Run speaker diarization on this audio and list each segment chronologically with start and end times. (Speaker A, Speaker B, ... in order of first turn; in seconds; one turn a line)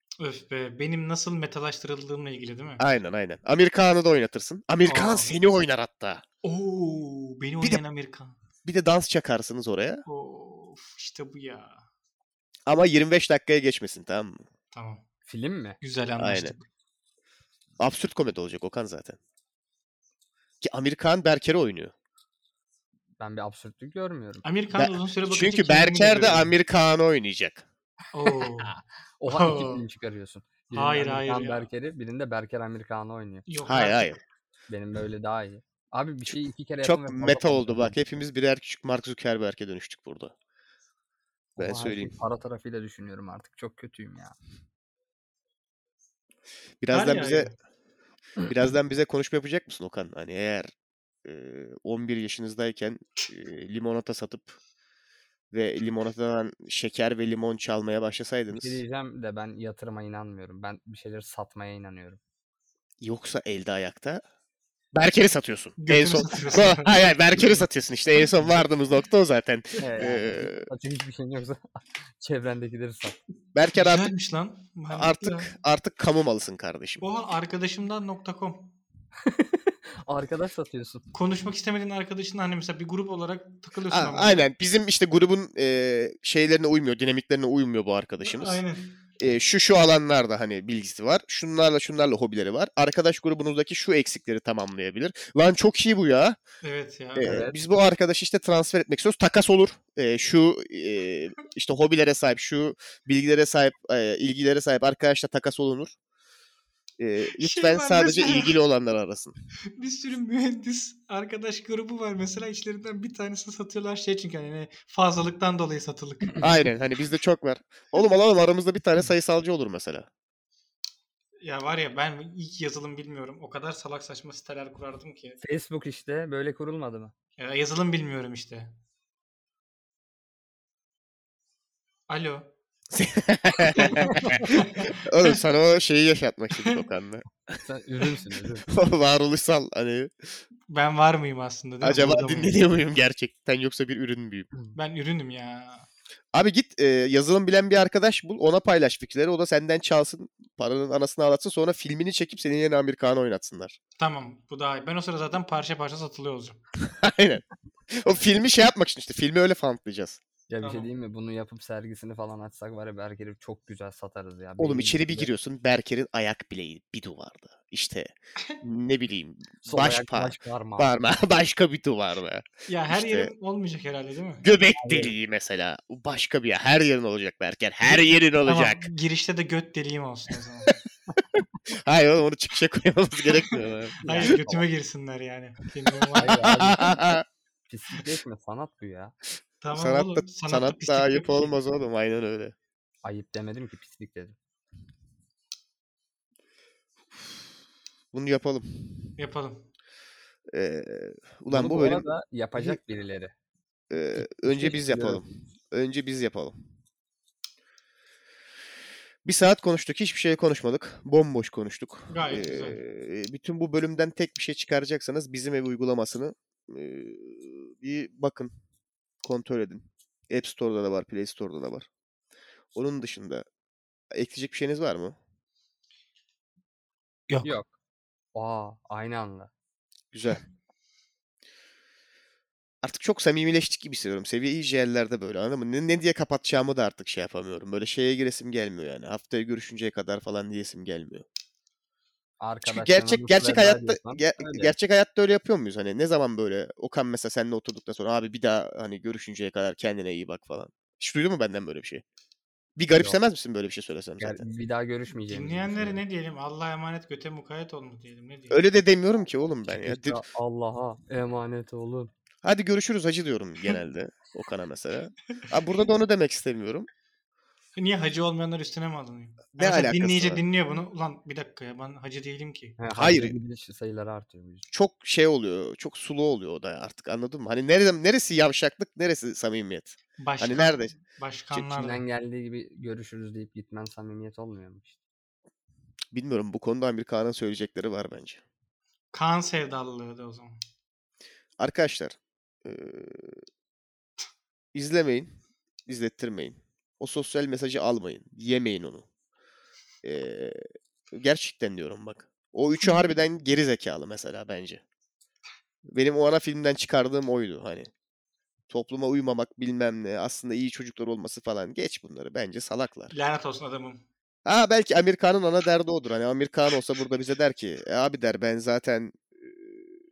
Speaker A: 0.2-2.8
Speaker B: 2.8-6.2
Speaker A: 4.9-5.3
Speaker A: 6.4-8.4
Speaker B: 8.7-10.0
Speaker A: 10.1-11.8
Speaker B: 12.7-14.4
Speaker A: 14.7-15.0
Speaker C: 15.3-15.8
Speaker A: 15.8-16.6
Speaker B: 16.2-16.6
Speaker B: 17.8-19.2
Speaker B: 20.6-21.9
Speaker C: 23.2-24.4
Speaker A: 24.4-26.5
Speaker B: 24.8-27.7
Speaker A: 28.1-28.8
Speaker C: 28.6-33.5
Speaker A: 29.3-29.9
Speaker A: 30.7-31.7
Speaker A: 33.5-34.2
Speaker B: 33.6-34.2
Speaker C: 34.7-38.0
Speaker B: 36.3-40.3
Speaker B: 41.6-42.1
Speaker C: 41.6-44.4
Speaker B: 46.8-47.5
Speaker A: 46.9-47.5
Speaker B: 48.5-50.7
Speaker B: 51.2-54.6
Speaker B: 55.5-58.8
Speaker C: 58.5-62.2
Speaker B: 63.0-64.2
Speaker B: 64.9-70.7
Speaker A: 65.8-67.0
Speaker C: 69.8-73.2
Speaker B: 73.5-74.1
Speaker A: 73.7-75.5
Speaker B: 74.9-77.0
Speaker A: 77.0-78.8
Speaker C: 79.2-81.0
Speaker A: 81.1-84.5
Speaker B: 83.9-88.6
Speaker A: 88.2-88.9
Speaker B: 89.2-96.4
Speaker A: 96.6-97.4
Speaker B: 97.2-105.9
Speaker C: 97.2-97.5
Speaker B: 107.0-109.3
Speaker A: 107.4-108.6
Speaker A: 109.8-116.5
Speaker B: 116.4-120.1
Speaker A: 121.4-125.4
Speaker C: 125.4-127.1
Speaker A: 127.4-128.7
Speaker A: 132.1-132.5
Speaker B: 132.9-137.6
Speaker A: 133.8-134.9
Speaker C: 137.6-138.7
Speaker B: 138.7-140.1
Speaker A: 140.7-142.6
Speaker B: 141.8-144.5
Speaker A: 144.8-145.9
Speaker B: 146.3-153.8
Speaker A: 154.0-156.6
Speaker B: 156.8-160.2
Speaker C: 160.5-165.3
Speaker A: 160.6-160.9
Speaker B: 164.6-173.3
Speaker C: 169.7-170.9
Speaker A: 172.7-174.4
Speaker B: 174.4-178.9
Speaker C: 174.8-175.1
Speaker A: 178.4-180.8
Speaker B: 181.7-184.4
Speaker C: 184.0-184.6
Speaker A: 184.1-186.4
Speaker C: 186.2-187.0
Speaker B: 186.4-187.2
Speaker C: 187.7-189.2
Speaker A: 189.6-191.5
Speaker B: 189.7-192.6
Speaker C: 193.0-194.4
Speaker B: 198.1-199.1
Speaker A: 199.2-199.7
Speaker B: 200.5-202.8
Speaker C: 201.5-203.3
Speaker B: 203.9-206.6
Speaker C: 204.2-205.2
Speaker B: 209.2-218.5
Speaker A: 212.1-212.8
Speaker B: 219.2-221.9
Speaker B: 222.7-223.4
Speaker B: 224.1-225.2
Speaker C: 227.4-227.7
Speaker C: 228.3-229.5
Speaker B: 230.1-230.4
Speaker B: 232.8-241.2
Speaker C: 242.4-244.7
Speaker B: 242.6-252.0
Speaker B: 252.8-254.5
Speaker C: 252.9-253.2
Speaker C: 254.2-256.0
Speaker A: 255.3-258.6
Speaker B: 258.5-260.2
Speaker C: 259.7-262.1
Speaker B: 262.4-266.9
Speaker A: 267.8-272.8
Speaker B: 269.5-270.4
Speaker C: 272.8-274.7
Speaker B: 272.9-273.4
Speaker B: 274.7-280.9
Speaker A: 280.2-282.0
Speaker C: 281.5-285.0
Speaker B: 286.1-288.4
Speaker A: 289.1-290.6
Speaker B: 291.6-293.4
Speaker B: 294.7-295.4
Speaker B: 295.9-299.1
Speaker B: 300.0-304.8
Speaker B: 305.9-307.9
Speaker B: 308.7-313.1
Speaker A: 313.1-314.0
Speaker B: 314.5-319.9